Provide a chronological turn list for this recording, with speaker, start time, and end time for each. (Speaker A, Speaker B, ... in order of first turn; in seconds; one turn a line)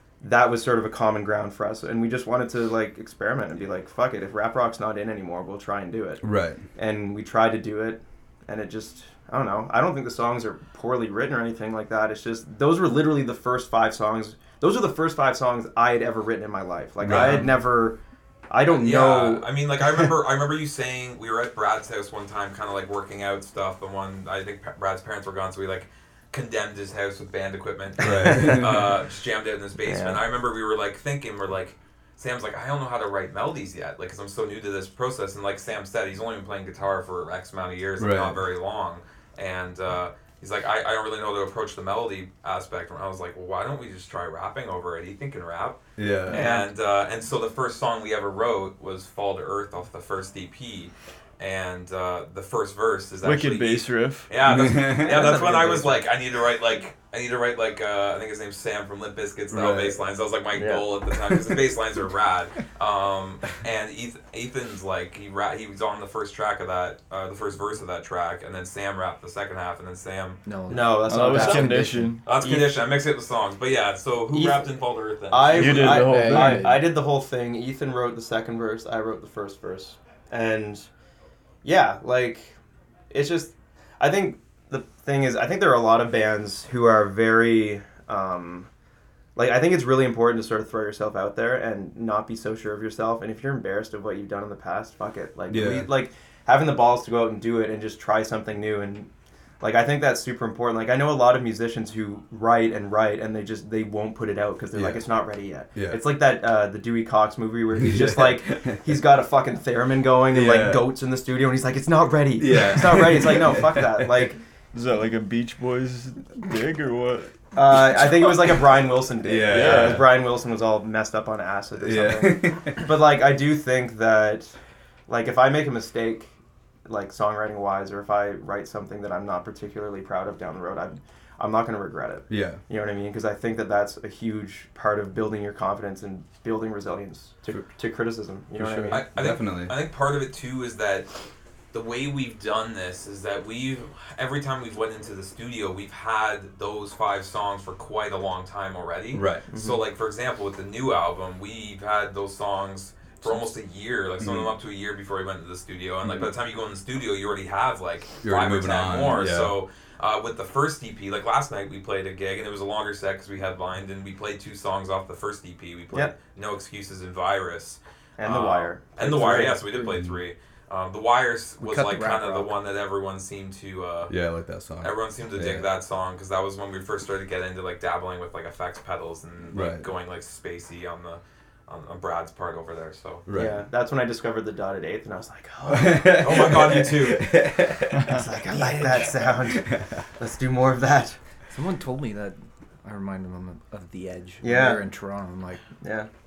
Speaker A: 0.2-18.0
Speaker B: 6.2-6.6
Speaker B: 17.0-17.5
Speaker A: 18.5-20.1
Speaker C: 18.7-70.4
Speaker B: 28.0-28.9
Speaker A: 29.8-30.2
Speaker B: 38.0-38.4
Speaker B: 46.0-46.5
Speaker A: 46.3-46.7
Speaker D: 53.2-54.3
Speaker B: 54.4-55.4
Speaker A: 55.0-56.1
Speaker B: 59.5-60.0
Speaker A: 60.5-60.9
Speaker B: 61.3-61.6
Speaker E: 70.4-72.2
Speaker A: 70.7-71.8
Speaker D: 71.1-72.8
Speaker C: 72.2-76.1
Speaker A: 74.3-74.7
Speaker A: 75.3-80.9
Speaker D: 75.5-76.8
Speaker E: 76.0-76.8
Speaker A: 81.6-82.6
Speaker A: 83.1-88.7
Speaker A: 89.3-99.1
Speaker B: 95.5-95.9
Speaker A: 99.6-114.4
Speaker B: 104.7-105.0
Speaker B: 105.7-106.0
Speaker B: 107.7-109.0
Speaker B: 110.3-110.9
Speaker B: 112.4-114.3
Speaker D: 114.7-117.4
Speaker A: 117.5-126.3
Speaker B: 117.9-118.4
Speaker B: 119.2-120.1
Speaker D: 119.5-120.1
Speaker B: 121.8-122.9
Speaker A: 126.8-139.0
Speaker B: 132.3-132.6
Speaker B: 138.5-139.8
Speaker C: 138.9-141.1
Speaker C: 141.7-174.2
Speaker B: 149.1-149.5
Speaker A: 149.5-149.8
Speaker B: 154.2-154.5
Speaker B: 158.2-159.6
Speaker A: 168.2-169.6
Speaker B: 169.8-170.2
Speaker E: 171.6-172.5
Speaker B: 174.1-175.7
Speaker C: 174.8-183.2
Speaker B: 179.5-179.9
Speaker B: 183.2-183.6
Speaker A: 183.3-186.2
Speaker B: 185.7-188.2
Speaker C: 186.2-187.4
Speaker D: 187.9-188.2
Speaker A: 188.1-191.2
Speaker E: 188.6-189.1
Speaker B: 189.4-190.0
Speaker E: 191.5-195.7
Speaker A: 194.4-194.8
Speaker A: 195.8-196.1